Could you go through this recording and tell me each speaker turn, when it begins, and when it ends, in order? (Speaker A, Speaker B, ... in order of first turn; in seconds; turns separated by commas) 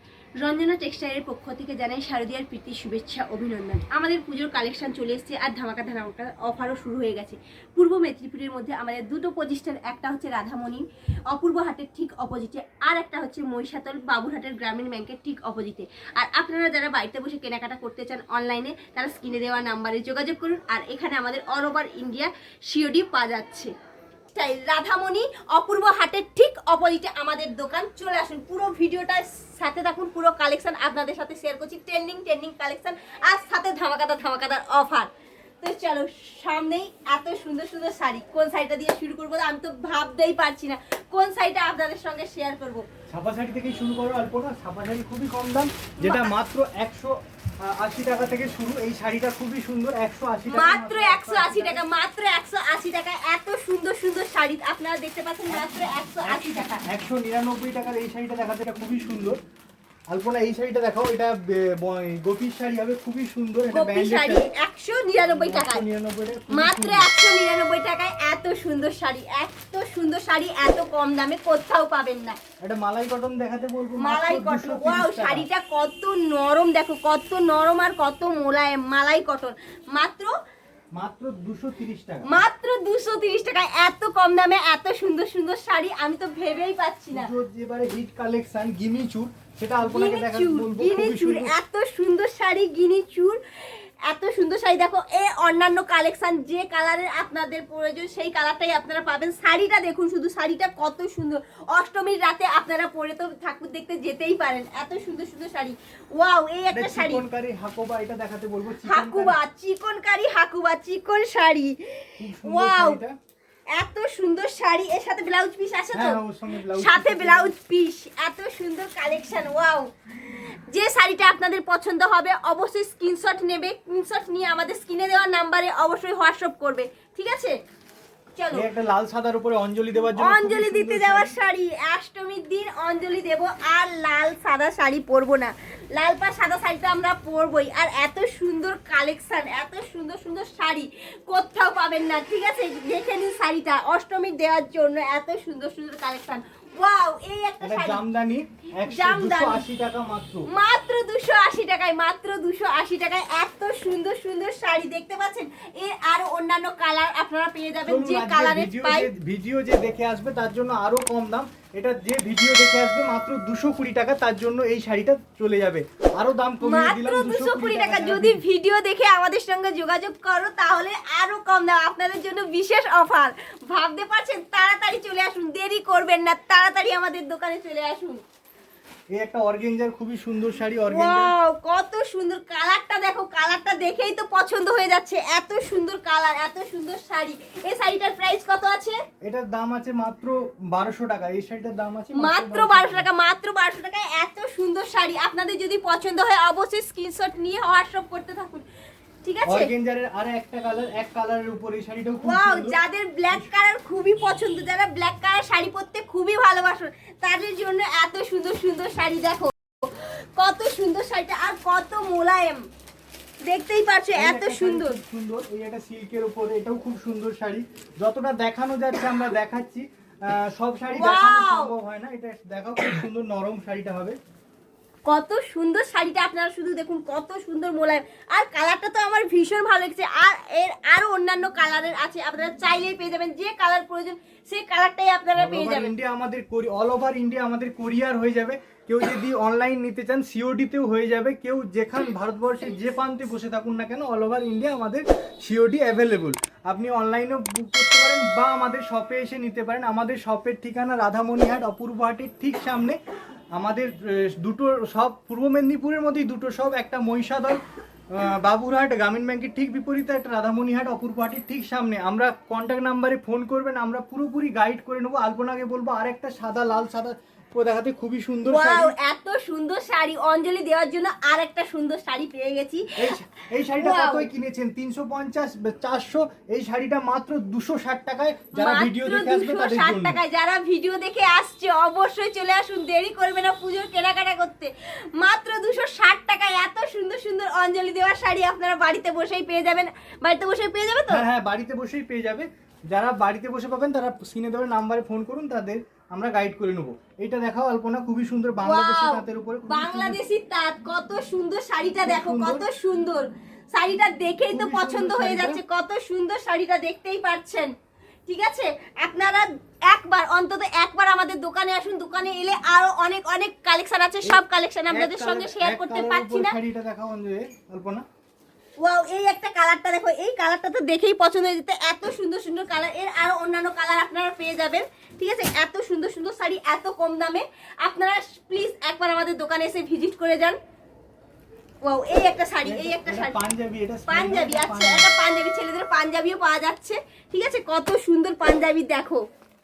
Speaker A: 0.4-23.7, Speaker A: 24.3-35.1, Speaker A: 35.6-42.9, Speaker B: 43.1-51.8, Speaker A: 46.0-46.3, Speaker A: 50.5-56.9, Speaker B: 56.2-59.4, Speaker B: 60.1-64.5, Speaker A: 63.7-65.8, Speaker B: 65.2-67.1, Speaker A: 66.5-72.4, Speaker B: 72.6-75.5, Speaker A: 74.0-80.3, Speaker B: 80.9-82.4, Speaker A: 82.2-87.3, Speaker B: 87.1-91.5, Speaker A: 89.9-93.4, Speaker A: 94.1-107.2, Speaker B: 106.7-109.4, Speaker A: 108.8-113.0, Speaker B: 112.2-113.2, Speaker A: 113.7-127.5, Speaker B: 115.9-117.5, Speaker A: 128.3-128.7, Speaker B: 128.5-131.3, Speaker A: 130.1-148.0, Speaker B: 147.6-150.5, Speaker A: 148.8-149.6, Speaker A: 150.5-159.1, Speaker B: 157.8-168.4, Speaker A: 166.6-178.2, Speaker B: 179.1-181.3, Speaker A: 180.9-189.0, Speaker B: 189.2-193.1, Speaker A: 192.1-198.6, Speaker A: 199.2-199.7, Speaker B: 199.5-202.8, Speaker A: 202.2-212.6, Speaker A: 213.5-215.0, Speaker B: 214.1-224.2, Speaker A: 220.9-221.7, Speaker A: 225.1-235.9, Speaker B: 235.3-253.0, Speaker B: 253.6-257.6, Speaker B: 258.1-268.9, Speaker A: 268.5-273.1, Speaker B: 273.0-280.2, Speaker A: 273.8-274.3, Speaker A: 278.6-291.2, Speaker B: 291.1-300.2, Speaker A: 298.6-307.7, Speaker B: 302.0-302.6, Speaker B: 304.5-305.6, Speaker A: 308.3-316.6, Speaker B: 314.2-318.0, Speaker A: 318.8-330.6, Speaker A: 331.8-333.4, Speaker B: 332.6-335.1, Speaker A: 334.1-339.2